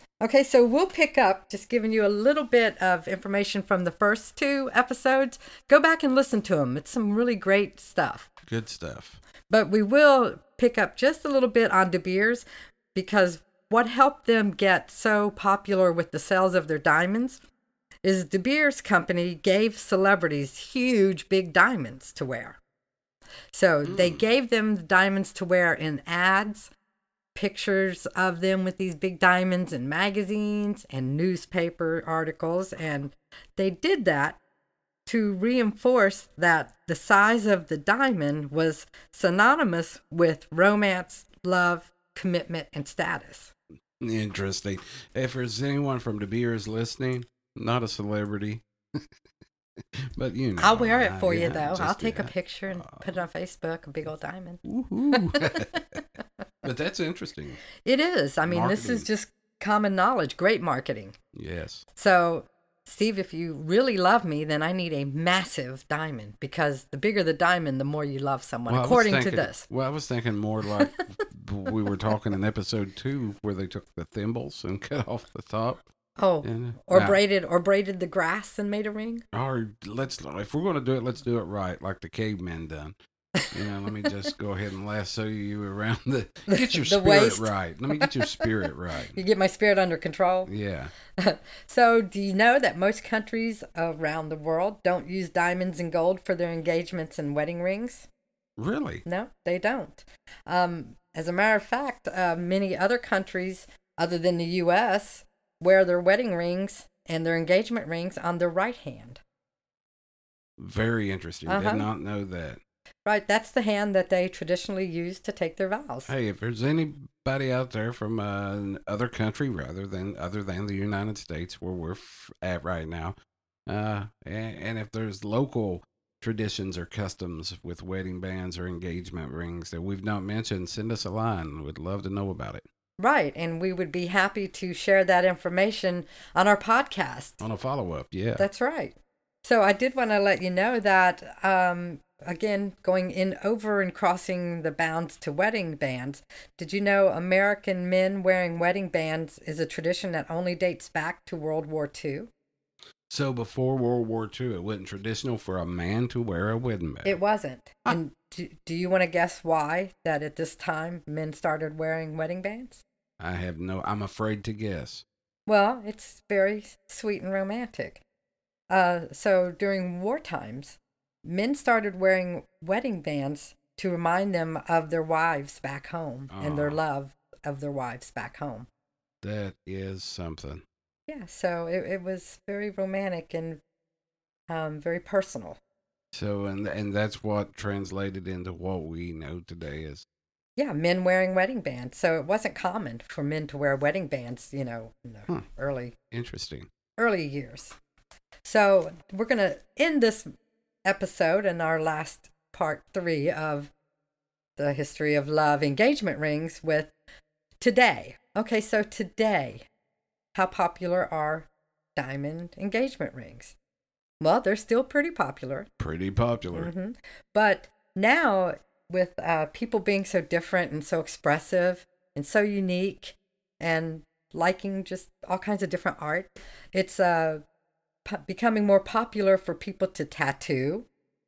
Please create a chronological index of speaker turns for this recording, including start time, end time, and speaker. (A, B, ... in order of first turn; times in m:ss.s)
0:00.2-0:08.3 A
0:08.5-0:09.2 B
0:09.5-0:17.4 A
0:18.0-0:22.6 A
0:23.5-0:26.7 A
0:23.8-0:24.2 B
0:27.3-0:34.4 A
0:35.0-0:43.5 A
0:44.0-0:49.0 B
0:50.2-0:53.1 B
0:50.6-0:56.0 A
0:54.6-0:55.7 B
0:56.6-0:57.6 B
0:57.8-1:01.2 A
0:58.5-0:59.0 B
1:01.3-1:01.8 B
1:01.9-1:09.7 A
1:08.7-1:15.8 B
1:16.2-1:19.2 A
1:16.4-1:17.2 B
1:19.3-1:23.0 B
1:23.5-1:29.2 B
1:26.5-1:28.5 A
1:29.1-1:30.5 A
1:30.5-1:30.9 B
1:31.2-1:38.1 A
1:38.6-1:39.0 B
1:39.0-1:49.2 A
1:50.6-1:52.6 B
1:51.5-1:51.9 A
1:53.0-1:56.1 A
1:56.1-2:03.2 B
2:03.7-2:12.6 B
2:13.0-2:17.4 A
2:17.4-2:18.4 B
2:18.4-2:32.3 A
2:33.1-2:37.2 B
2:37.0-2:42.8 A
2:43.2-2:45.0 B
2:45.4-2:48.0 A
2:48.7-2:58.7 A
2:56.3-2:56.8 B
2:59.2-3:00.6 B
3:01.1-3:03.6 A
3:04.5-3:05.6 A
3:06.1-3:10.0 B
3:10.6-3:16.0 A
3:16.1-3:16.7 B
3:17.0-3:17.8 A
3:18.4-3:20.3 A
3:20.8-3:23.7 A
3:24.6-3:26.9 A
3:27.6-3:29.7 A
3:30.3-3:33.6 A
3:34.2-3:35.7 A
3:35.8-3:36.7 B
3:36.5-3:47.4 A
3:48.0-3:50.9 A